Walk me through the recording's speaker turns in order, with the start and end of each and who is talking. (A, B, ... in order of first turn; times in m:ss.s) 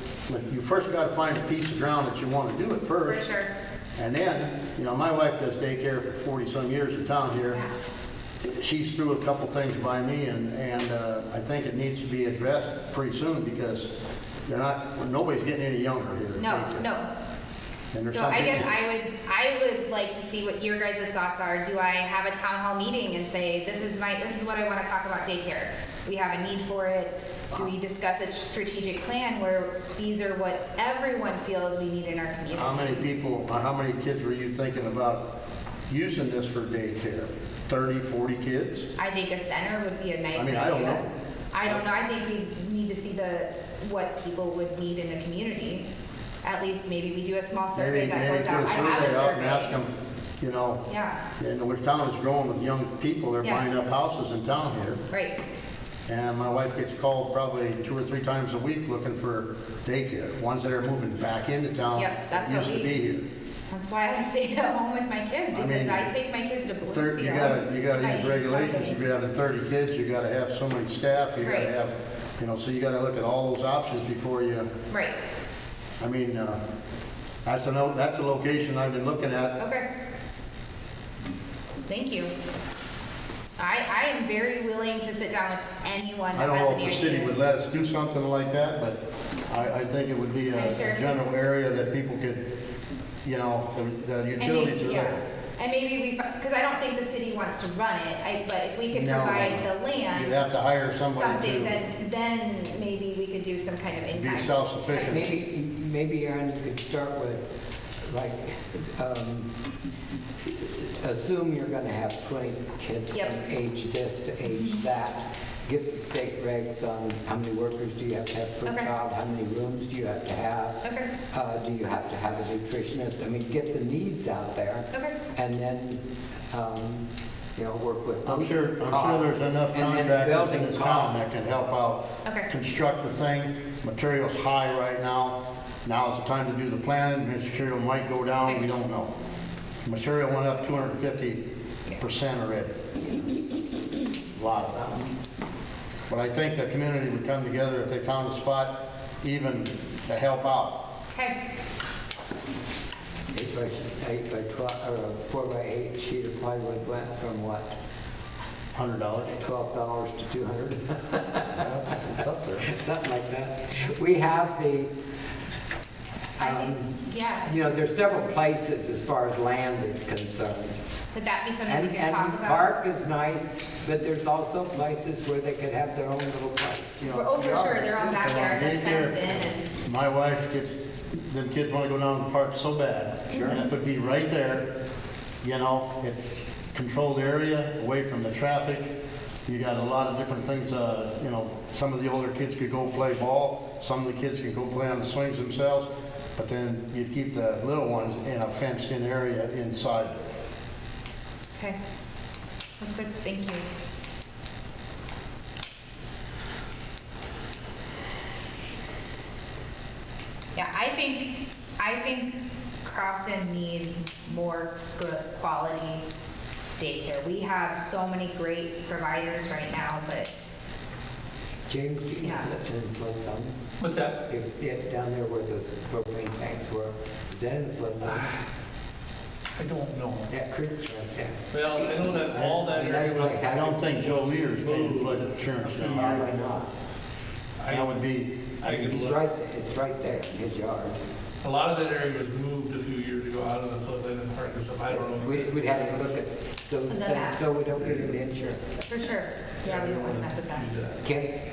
0:00.3-0:03.2 A
0:03.0-0:03.5 B
0:04.0-0:07.6 A
0:08.4-0:13.9 A
0:14.5-0:16.8 A
0:16.4-0:17.1 B
0:17.9-0:18.7 A
0:18.1-0:33.0 B
0:32.5-0:35.3 A
0:35.9-0:38.9 A
0:39.0-0:45.8 B
0:40.3-0:41.0 A
0:46.4-0:49.8 B
0:47.7-0:50.8 A
0:50.8-0:51.2 B
0:51.4-0:55.0 A
0:53.4-0:53.8 B
0:55.1-0:55.4 B
0:56.1-1:03.2 A
1:02.0-1:02.9 B
1:03.7-1:09.0 B
1:05.5-1:06.0 A
1:06.9-1:14.7 A
1:11.4-1:11.7 B
1:14.9-1:15.2 B
1:16.0-1:16.6 A
1:17.4-1:19.6 A
1:19.6-1:19.8 B
1:21.8-1:22.3 B
1:23.6-1:27.4 B
1:26.3-1:32.4 A
1:30.5-1:31.3 B
1:33.2-1:35.2 A
1:34.4-1:40.4 B
1:38.9-1:41.8 A
1:41.1-1:45.2 B
1:44.1-1:45.3 A
1:45.0-1:49.5 C
1:50.4-2:11.2 C
2:00.8-2:01.1 B
2:08.2-2:19.1 A
2:19.8-2:21.4 A
2:22.0-2:22.8 A
2:24.4-2:24.8 A
2:24.6-2:25.1 C
2:26.1-2:30.8 A
2:31.1-2:31.4 B
2:33.3-2:37.7 C
2:38.7-2:39.4 A
2:39.3-2:41.6 C
2:41.6-2:42.7 A
2:42.6-2:44.9 C
2:46.4-2:50.8 C
2:46.4-2:47.5 B
2:51.1-2:52.7 B
2:51.6-2:58.9 C
2:57.1-2:59.6 B
2:58.2-3:04.7 A
3:03.3-3:03.6 C
3:05.4-3:08.9 A
3:09.5-3:20.3 A
3:22.8-3:23.6 B
3:30.5-3:36.0 B
3:36.8-3:40.3 B
3:41.7-3:43.6 C
3:42.2-3:42.5 B
3:43.8-3:44.2 D
3:44.2-3:48.4 C
3:49.6-3:50.3 D
3:50.3-3:51.4 C
3:51.5-3:56.5 D
3:52.1-3:53.8 C
3:53.5-3:56.2 A
3:56.0-3:56.7 C
3:57.6-3:58.1 D
3:57.7-3:58.3 A
3:58.6-3:59.2 D
3:58.6-4:01.0 C
4:01.4-4:05.9 D
4:04.9-4:08.8 C
4:06.9-4:07.4 B
4:08.9-4:10.7 B
4:09.6-4:11.0 D
4:11.0-4:11.4 C